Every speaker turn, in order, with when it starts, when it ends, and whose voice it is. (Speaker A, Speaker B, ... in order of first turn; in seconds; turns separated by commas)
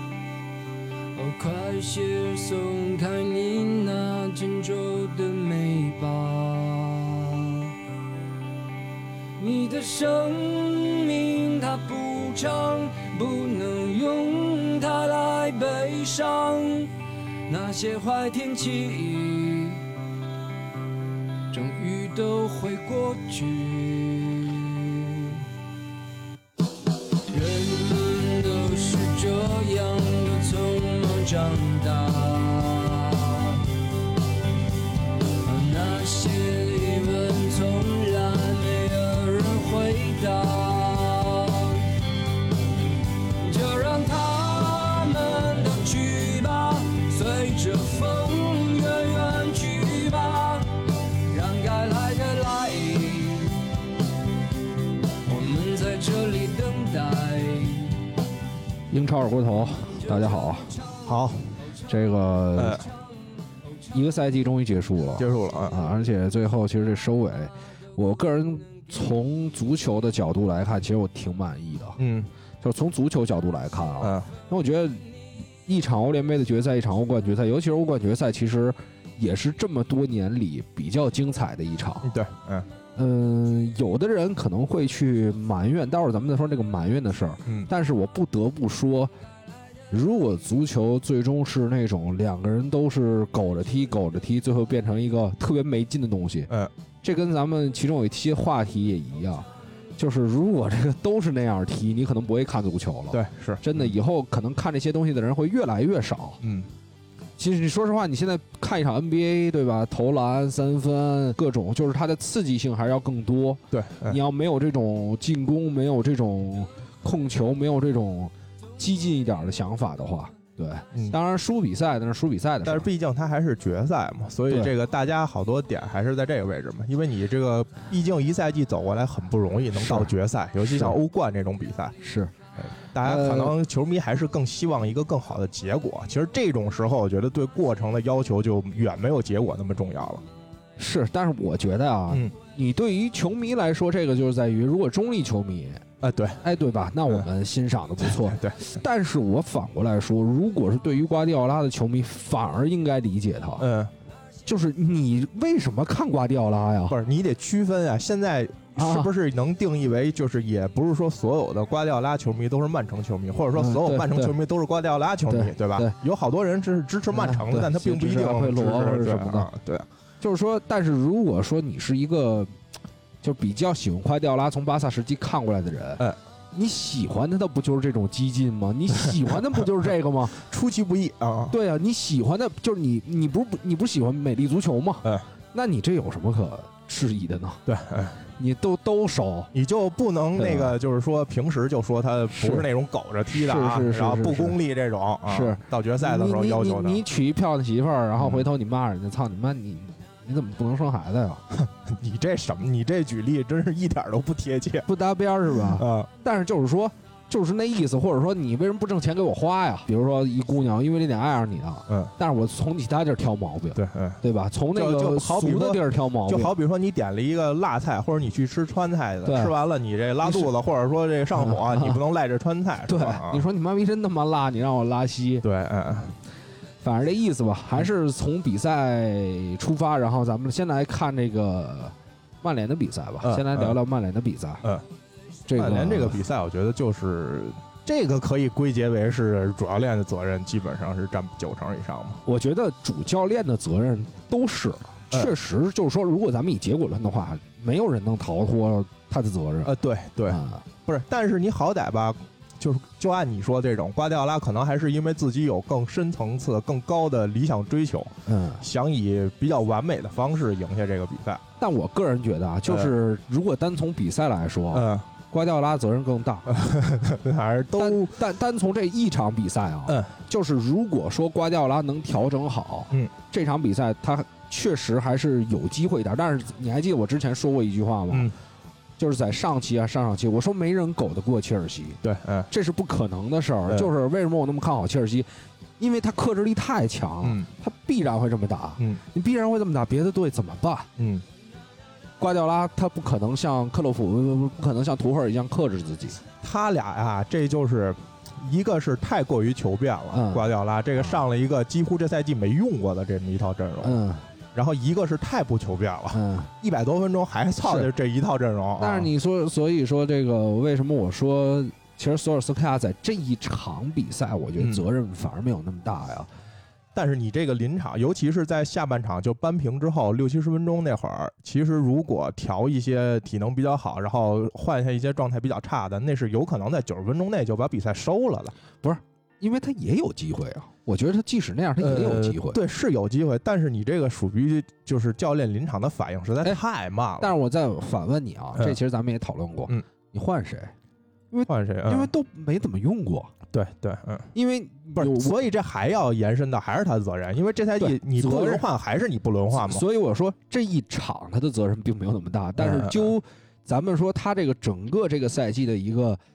Speaker A: 1.1-7.7, Speaker A: 9.4-16.9, Speaker A: 17.5-19.9, Speaker A: 21.5-25.5, Speaker A: 27.3-33.7, Speaker A: 35.4-42.0, Speaker A: 43.3-53.7, Speaker A: 55.2-58.1, Speaker B: 58.9-60.7, Speaker C: 61.0-61.5, Speaker B: 61.9-62.9, Speaker C: 62.5-62.9, Speaker B: 63.9-72.0, Speaker C: 65.2-65.8, Speaker C: 72.0-72.3, Speaker B: 72.6-75.0, Speaker C: 74.0-74.3, Speaker B: 75.7-82.1, Speaker C: 82.0-82.7, Speaker B: 83.0-89.1, Speaker B: 89.9-96.5, Speaker B: 97.0-106.4, Speaker C: 103.1-103.9, Speaker C: 106.4-106.7, Speaker B: 107.4-122.9, Speaker C: 113.7-114.2, Speaker C: 122.6-131.9, Speaker B: 129.8-131.0, Speaker B: 132.0-132.3, Speaker C: 132.6-140.2, Speaker B: 133.0-133.6, Speaker B: 140.8-145.8, Speaker C: 146.0-146.4, Speaker B: 146.4-153.7, Speaker C: 148.0-148.8, Speaker C: 153.6-153.9, Speaker B: 154.4-157.0, Speaker C: 156.9-169.9, Speaker B: 158.8-159.1, Speaker B: 163.5-164.4, Speaker B: 165.3-165.9, Speaker B: 167.1-169.5, Speaker B: 170.2-172.5, Speaker B: 173.2-180.4, Speaker C: 180.4-181.5, Speaker B: 181.5-187.6, Speaker C: 187.7-188.2, Speaker B: 188.3-189.5, Speaker C: 189.5-197.0, Speaker B: 190.3-190.8, Speaker B: 192.3-192.7, Speaker B: 193.3-194.6, Speaker B: 195.2-201.4, Speaker C: 198.2-198.5, Speaker C: 201.5-204.9, Speaker B: 204.8-216.5, Speaker C: 205.5-206.1, Speaker C: 213.8-214.2, Speaker C: 214.7-223.4, Speaker B: 219.2-219.5, Speaker B: 220.2-220.5, Speaker B: 221.3-222.0, Speaker B: 222.9-225.4, Speaker C: 225.4-226.1, Speaker B: 226.8-234.6, Speaker C: 233.2-233.8, Speaker B: 235.5-236.2, Speaker C: 235.5-242.2, Speaker B: 242.2-249.7, Speaker C: 249.6-261.4, Speaker B: 250.3-250.6, Speaker B: 258.2-258.6, Speaker B: 261.6-266.6, Speaker C: 262.7-262.9, Speaker C: 264.7-265.1, Speaker C: 266.5-268.1, Speaker B: 267.8-278.3, Speaker B: 279.0-285.3, Speaker C: 282.0-282.5, Speaker B: 285.8-290.9, Speaker C: 287.2-287.5, Speaker C: 291.0-291.2, Speaker B: 292.2-296.2, Speaker C: 296.4-304.0, Speaker B: 300.1-301.2, Speaker B: 303.8-304.2, Speaker C: 304.5-309.1, Speaker B: 306.1-306.5, Speaker B: 307.6-307.9, Speaker B: 308.8-316.3, Speaker C: 316.9-328.5, Speaker B: 328.8-332.6, Speaker C: 331.8-337.3, Speaker B: 337.2-340.7, Speaker B: 341.3-343.3, Speaker C: 341.5-342.1, Speaker C: 343.5-344.3, Speaker B: 344.3-345.4, Speaker C: 344.9-349.8, Speaker B: 347.8-348.6, Speaker B: 349.5-356.2, Speaker C: 352.6-353.1